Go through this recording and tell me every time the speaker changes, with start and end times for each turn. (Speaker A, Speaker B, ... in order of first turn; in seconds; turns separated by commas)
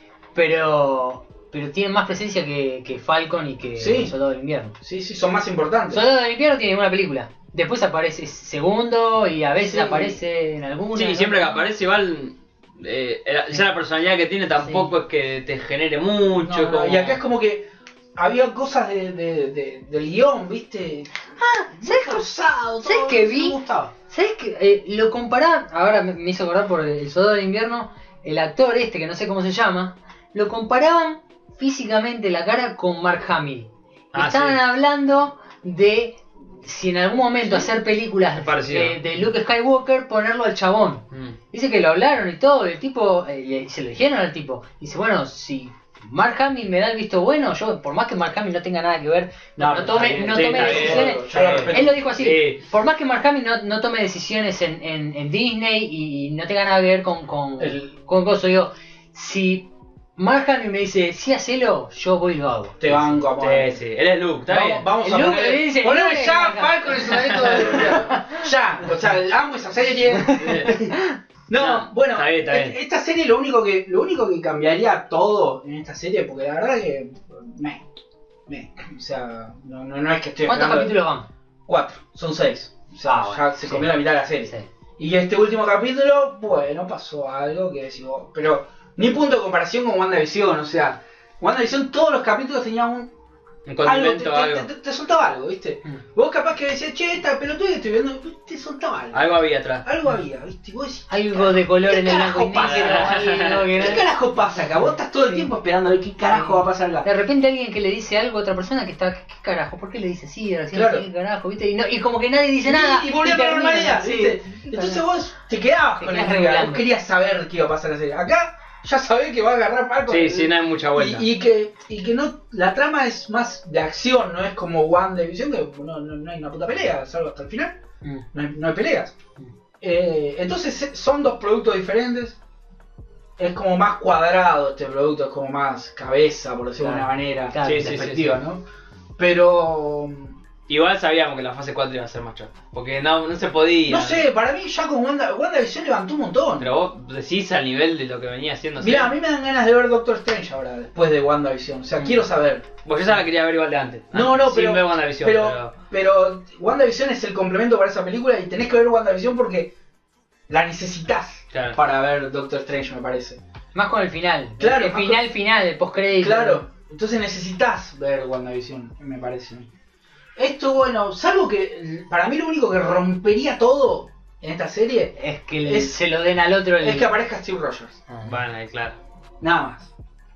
Speaker A: 0.3-4.8, Speaker B: 3.8-4.1, Speaker B: 4.8-6.0, Speaker A: 5.9-11.6, Speaker B: 9.6-10.2, Speaker C: 10.9-17.2, Speaker A: 14.6-14.9, Speaker B: 16.3-21.1, Speaker A: 21.4-22.2, Speaker B: 21.7-23.9, Speaker A: 22.8-63.2, Speaker C: 34.1-34.6, Speaker C: 38.3-39.0, Speaker B: 49.6-52.0, Speaker C: 49.8-52.6, Speaker B: 57.6-57.8, Speaker B: 62.8-63.8, Speaker C: 63.3-64.8, Speaker B: 64.5-70.9, Speaker A: 65.0-68.5, Speaker C: 67.1-68.0, Speaker A: 70.2-71.2, Speaker C: 70.3-70.8, Speaker B: 71.5-77.8, Speaker C: 71.5-72.8, Speaker B: 78.5-81.0, Speaker A: 80.4-81.3, Speaker B: 81.7-93.1, Speaker A: 83.0-84.7, Speaker C: 93.7-94.7, Speaker B: 93.8-103.2, Speaker C: 99.1-99.8, Speaker A: 101.1-104.0, Speaker C: 102.6-103.9, Speaker B: 103.8-107.0, Speaker A: 106.3-115.0, Speaker B: 110.7-111.0, Speaker B: 112.6-127.8, Speaker A: 116.0-116.8, Speaker C: 120.1-121.2, Speaker B: 128.3-129.1, Speaker B: 129.8-132.4, Speaker B: 133.4-138.6, Speaker A: 136.8-138.0, Speaker C: 137.6-138.4, Speaker B: 139.2-140.4, Speaker C: 140.7-144.2, Speaker B: 143.8-146.7, Speaker C: 146.6-149.1, Speaker B: 148.8-152.7, Speaker C: 152.8-155.7, Speaker B: 154.1-159.7, Speaker B: 160.5-163.4, Speaker C: 161.5-161.8, Speaker A: 163.7-166.6, Speaker B: 164.6-165.2, Speaker B: 166.2-169.7, Speaker B: 170.3-176.0, Speaker A: 175.2-177.1, Speaker B: 176.8-178.0, Speaker A: 178.1-178.3, Speaker C: 178.2-178.9, Speaker B: 179.4-179.9